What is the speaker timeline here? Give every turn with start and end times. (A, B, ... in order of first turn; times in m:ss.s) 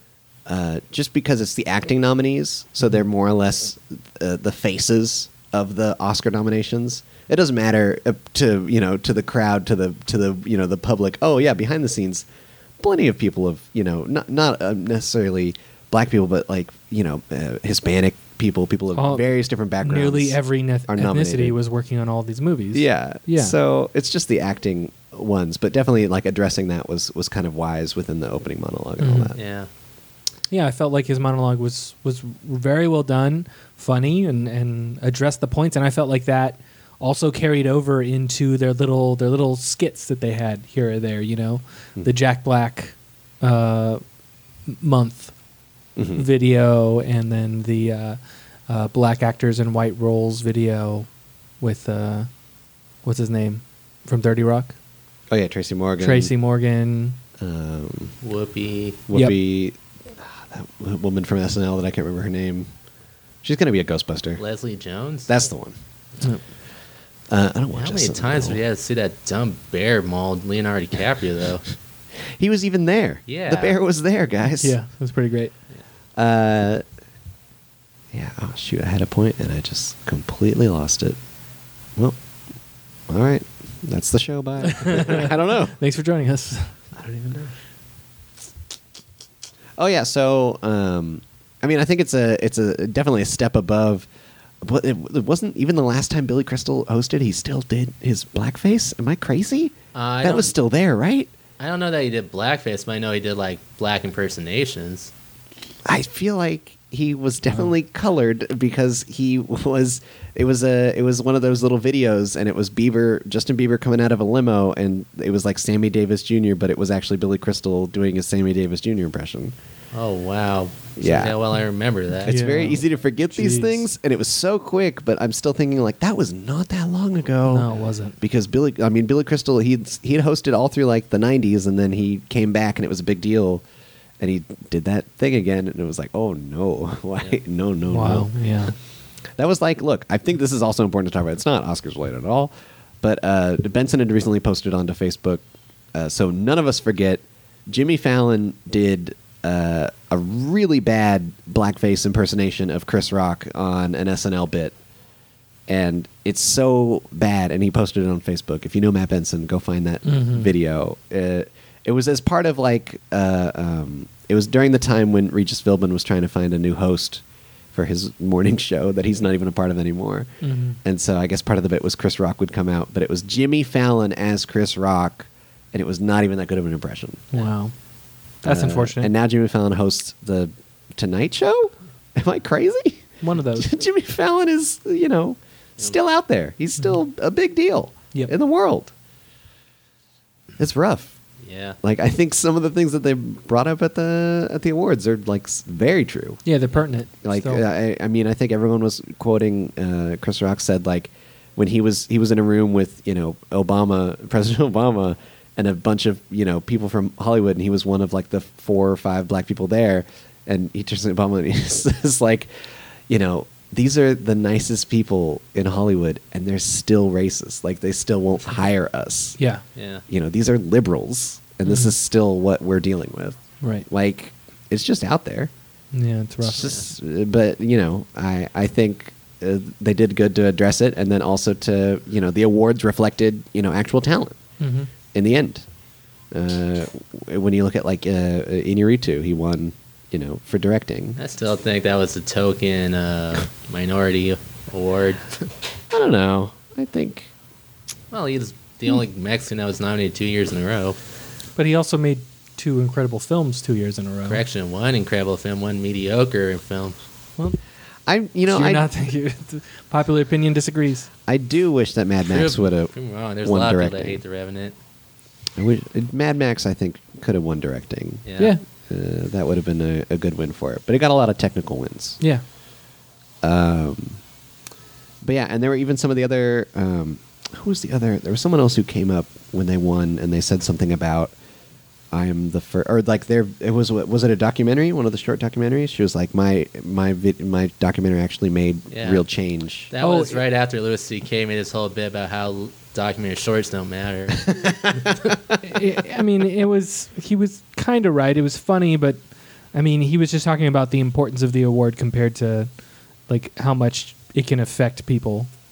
0:00.4-0:12.2 A
0:12.8-0:21.6 A
0:18.9-0:19.3 B
0:19.8-0:23.5 B
0:22.7-0:29.4 A
0:29.0-0:29.3 B
0:29.3-0:29.7 C
0:30.5-0:44.0 B
0:44.7-0:45.3 B
0:46.0-0:46.2 A
0:46.1-0:51.1 B
0:51.6-0:52.3 B
0:53.0-0:54.8 B
0:55.3-0:56.3 A
0:56.0-0:57.2 B
0:57.4-0:58.2 A
0:58.2-0:59.0 C
0:59.1-1:02.7 A
1:03.4-1:04.4 A
1:04.4-1:05.3 C
1:05.3-1:05.8 A
1:07.3-1:08.6 A
1:07.7-1:11.6 C
1:12.4-1:14.8 A
1:13.3-1:13.8 C
1:14.6-1:15.5 B
1:16.2-1:16.8 A
1:18.1-1:21.2 A
1:23.1-1:25.7 A
1:24.6-1:26.7 B
1:26.9-1:27.5 A
1:29.8-1:34.1 A
1:34.6-1:41.3 A
1:39.9-1:40.5 C
1:41.6-1:45.1 C
1:45.8-1:59.5 A
1:59.9-2:02.4 C
2:01.0-2:01.4 A
2:02.2-2:07.7 A
2:02.3-2:03.9 B
2:07.5-2:08.2 B
2:08.2-2:13.6 A
2:14.2-2:18.3 A
2:17.9-2:18.7 B
2:19.4-2:34.7 A
2:35.7-2:47.2 A
2:40.0-2:40.5 B
2:47.7-2:50.3 A
2:50.4-2:50.8 B
2:50.8-2:57.2 A
2:57.3-2:57.7 B
2:58.4-2:59.1 B
2:58.4-3:08.9 A
3:03.2-3:03.8 B
3:10.6-3:11.1 A
3:11.4-3:11.8 C
3:11.8-3:16.4 A
3:16.4-3:17.6 B
3:17.2-3:39.4 A
3:39.4-3:39.6 B
3:39.8-3:40.0 C
3:40.1-3:43.4 A
3:41.6-3:41.9 B
3:43.6-3:43.8 B
3:43.9-3:45.5 A
3:45.9-3:46.7 B
3:46.4-3:54.4 A
3:54.6-3:54.9 B
3:55.1-3:55.6 A
3:56.3-4:01.2 A
4:01.2-4:05.2 C
4:05.9-4:07.3 A
4:08.1-4:11.0 C
4:11.6-4:14.4 B
4:14.3-4:17.0 C
4:18.1-4:18.8 A
4:18.5-4:21.1 B
4:21.3-4:22.9 A
4:22.2-4:24.7 C
4:23.4-4:24.2 A
4:25.6-4:28.2 A
4:28.2-4:28.5 C
4:28.8-4:32.2 A
4:33.4-4:34.2 A
4:35.2-4:41.3 A
4:42.1-4:49.9 A
4:48.9-4:49.2 C
4:49.9-4:55.1 C
4:50.0-4:50.4 B
4:54.5-4:55.4 A
4:55.6-4:59.2 B
4:59.7-5:02.7 B
5:03.3-5:05.5 B